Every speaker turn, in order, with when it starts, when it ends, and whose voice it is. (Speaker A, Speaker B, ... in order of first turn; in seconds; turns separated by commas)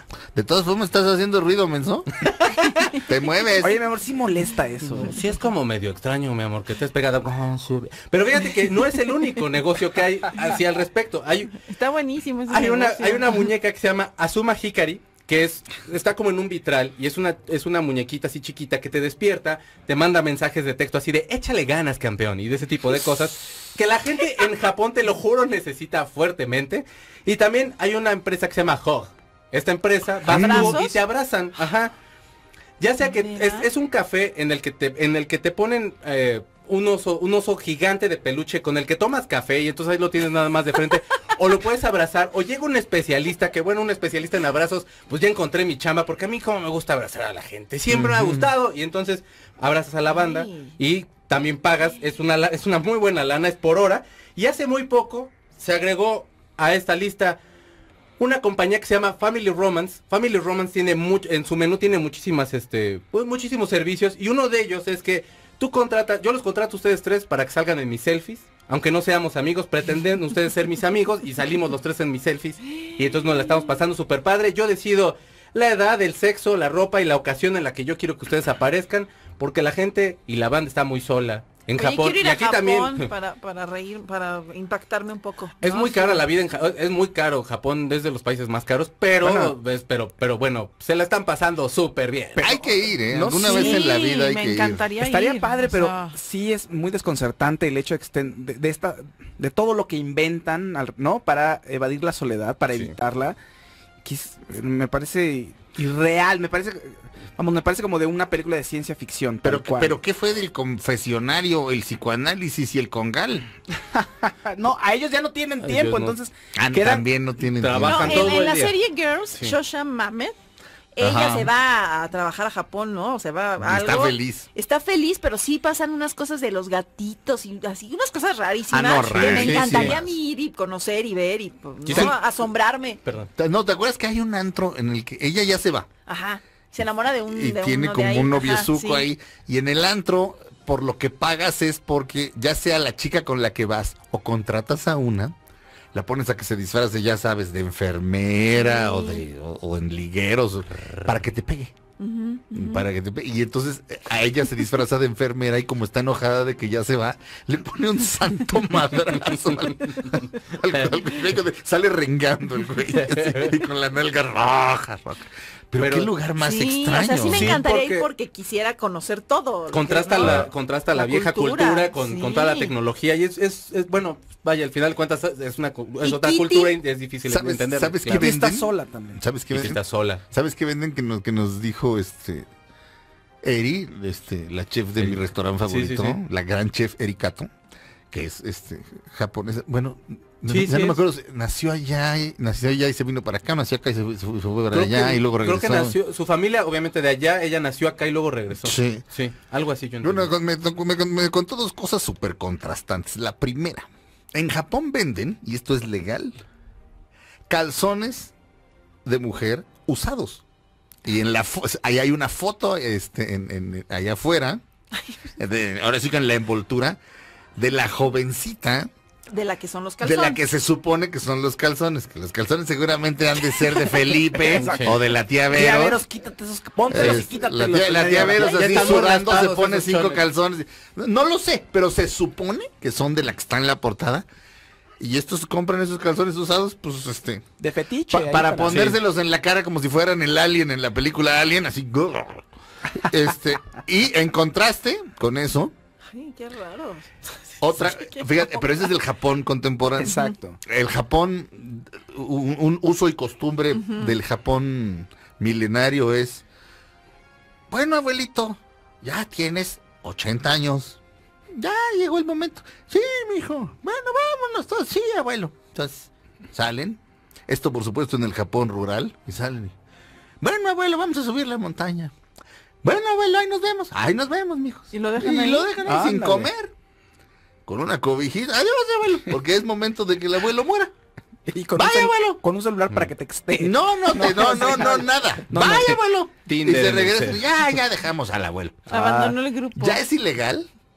Speaker A: 0.3-2.1, Speaker B: 2.3-2.9, Speaker A: 3.0-3.8, Speaker C: 3.6-5.1, Speaker B: 4.8-11.6, Speaker D: 11.6-13.3, Speaker B: 12.5-31.9, Speaker D: 30.2-31.0, Speaker A: 30.3-30.8, Speaker B: 32.8-57.4, Speaker D: 33.0-33.7, Speaker A: 47.9-48.5, Speaker D: 50.2-50.7, Speaker B: 58.2-83.1, Speaker D: 81.8-86.3, Speaker B: 85.6-92.5, Speaker C: 89.2-89.5, Speaker C: 92.3-93.9, Speaker A: 92.4-94.9, Speaker D: 93.4-96.2, Speaker C: 95.0-103.4, Speaker C: 104.0-110.0, Speaker A: 109.4-113.5, Speaker C: 113.9-117.0, Speaker B: 115.6-116.2, Speaker A: 116.5-118.4, Speaker B: 117.5-118.7, Speaker D: 117.8-120.3, Speaker D: 120.9-133.0, Speaker A: 121.0-121.5, Speaker A: 123.6-124.5, Speaker C: 128.7-130.0, Speaker A: 129.1-130.1, Speaker B: 131.8-132.1, Speaker A: 131.9-132.2, Speaker B: 133.0-133.3, Speaker A: 133.4-135.9, Speaker D: 136.1-139.1, Speaker A: 137.3-145.3, Speaker A: 145.9-151.7, Speaker D: 148.5-149.2, Speaker D: 152.0-152.8, Speaker A: 152.5-167.6, Speaker B: 162.9-163.5, Speaker B: 165.8-166.1, Speaker D: 166.4-172.7, Speaker B: 167.2-168.1, Speaker B: 169.7-178.3, Speaker A: 170.2-170.5, Speaker D: 176.0-176.8, Speaker A: 177.3-182.5, Speaker C: 178.1-179.2, Speaker B: 179.5-180.2, Speaker A: 183.4-187.5, Speaker B: 185.0-186.2, Speaker A: 188.1-195.9, Speaker B: 190.5-191.0, Speaker B: 194.7-200.3, Speaker A: 198.6-199.1, Speaker A: 200.0-206.4, Speaker A: 207.5-208.3, Speaker A: 209.0-210.4, Speaker A: 211.0-214.6, Speaker A: 215.4-217.0, Speaker A: 217.6-218.9, Speaker D: 219.3-220.4, Speaker A: 220.0-226.0, Speaker C: 224.4-228.6, Speaker B: 224.5-224.9, Speaker A: 226.9-234.2, Speaker B: 226.9-227.2, Speaker D: 228.4-229.0, Speaker B: 228.4-230.2, Speaker A: 235.0-237.4, Speaker C: 237.6-239.0, Speaker A: 238.1-242.4, Speaker A: 242.9-245.7, Speaker D: 246.1-248.9, Speaker A: 247.6-256.4, Speaker C: 250.0-250.6, Speaker D: 250.0-250.3, Speaker D: 253.7-254.1, Speaker A: 257.7-261.0, Speaker A: 261.5-269.7, Speaker A: 270.4-272.1, Speaker A: 272.8-276.7, Speaker D: 274.9-275.7, Speaker C: 275.8-276.5, Speaker A: 277.6-280.9, Speaker C: 281.5-286.0, Speaker A: 281.7-282.4, Speaker A: 283.6-288.9, Speaker B: 286.4-287.4, Speaker C: 288.9-289.4, Speaker D: 288.9-290.0, Speaker A: 289.7-290.7